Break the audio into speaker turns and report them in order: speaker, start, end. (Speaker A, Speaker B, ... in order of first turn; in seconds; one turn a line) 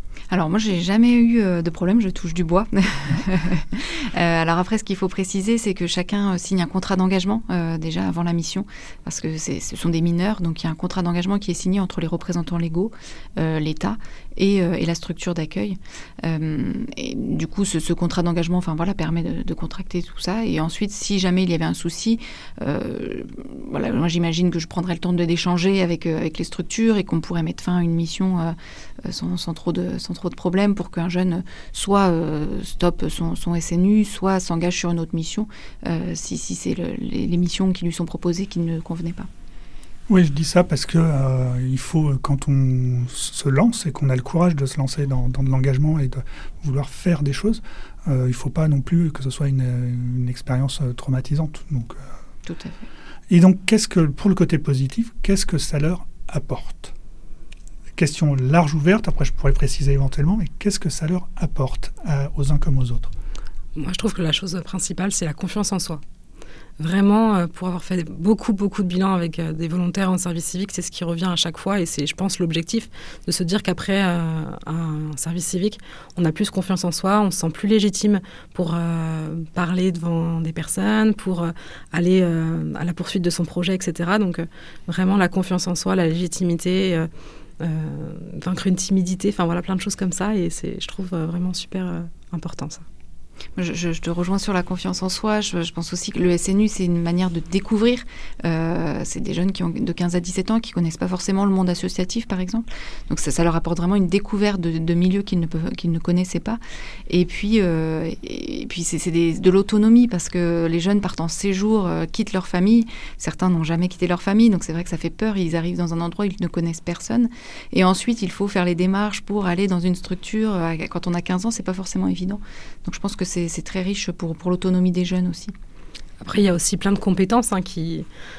Speaker A: 0.3-39.3
Speaker B: 40.1-52.1
Speaker A: 52.5-52.9
Speaker B: 53.3-56.9
Speaker B: 58.0-63.1
Speaker C: 63.8-66.0
Speaker C: 66.8-87.1
Speaker C: 87.6-92.8
Speaker A: 93.5-125.5
Speaker C: 126.2-128.1